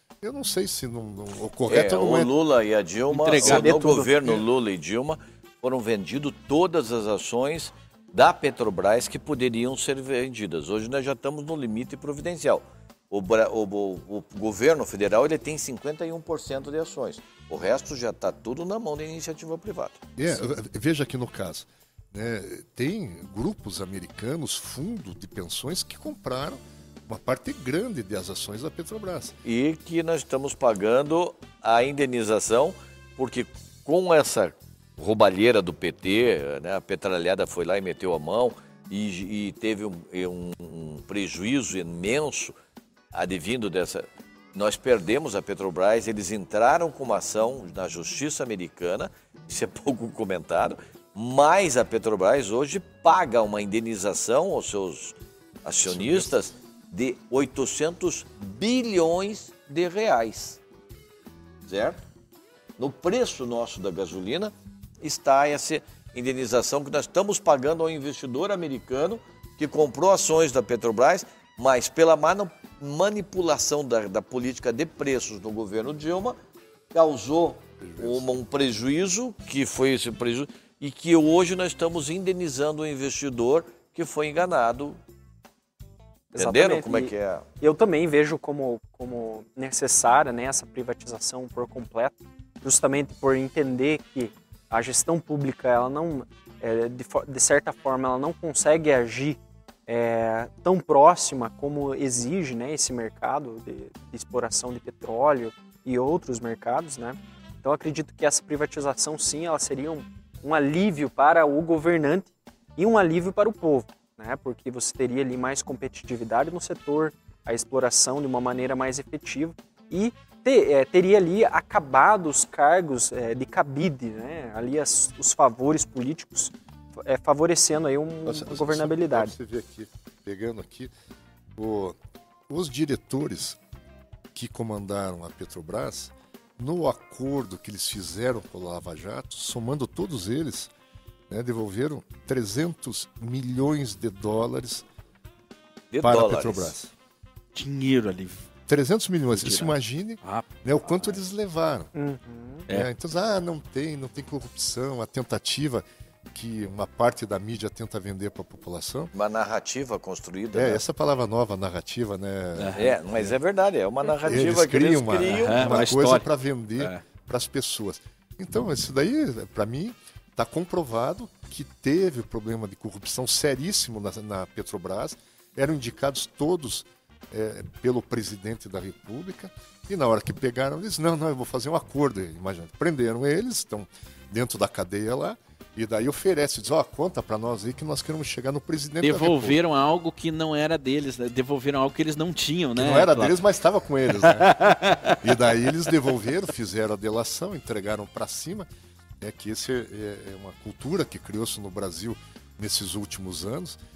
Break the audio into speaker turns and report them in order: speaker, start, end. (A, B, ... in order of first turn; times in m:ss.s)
0:00.2-0:02.3 A
0:01.7-0:20.1 B
0:03.1-0:04.4 C
0:03.4-0:03.7 A
0:20.2-0:29.4 A
0:29.4-0:42.6 B
0:43.1-1:00.6 B
0:55.9-0:56.3 A
1:01.6-1:02.0 B
1:02.8-1:16.4 B
1:16.9-1:25.0 B
1:17.8-1:18.3 A
1:26.3-2:09.3 D
1:26.4-1:27.4 B
2:08.2-2:10.9 A
2:11.6-2:12.0 A
2:12.5-2:13.6 A
2:14.3-2:20.7 A
2:21.3-2:24.8 A
2:25.9-2:26.7 B
2:26.0-2:26.9 A
2:27.5-2:28.5 C
2:28.7-2:31.9 A
2:29.4-2:30.5 C
2:31.9-2:32.7 D
2:32.7-2:39.1 A
2:39.1-2:40.8 B
2:40.5-2:43.3 A
2:42.6-2:43.0 C
2:42.8-2:45.9 B
2:44.2-3:09.6 A
2:45.3-2:47.0 C
3:09.0-3:13.4 C
3:12.8-3:18.7 A
3:14.1-3:15.3 C
3:19.2-3:23.8 A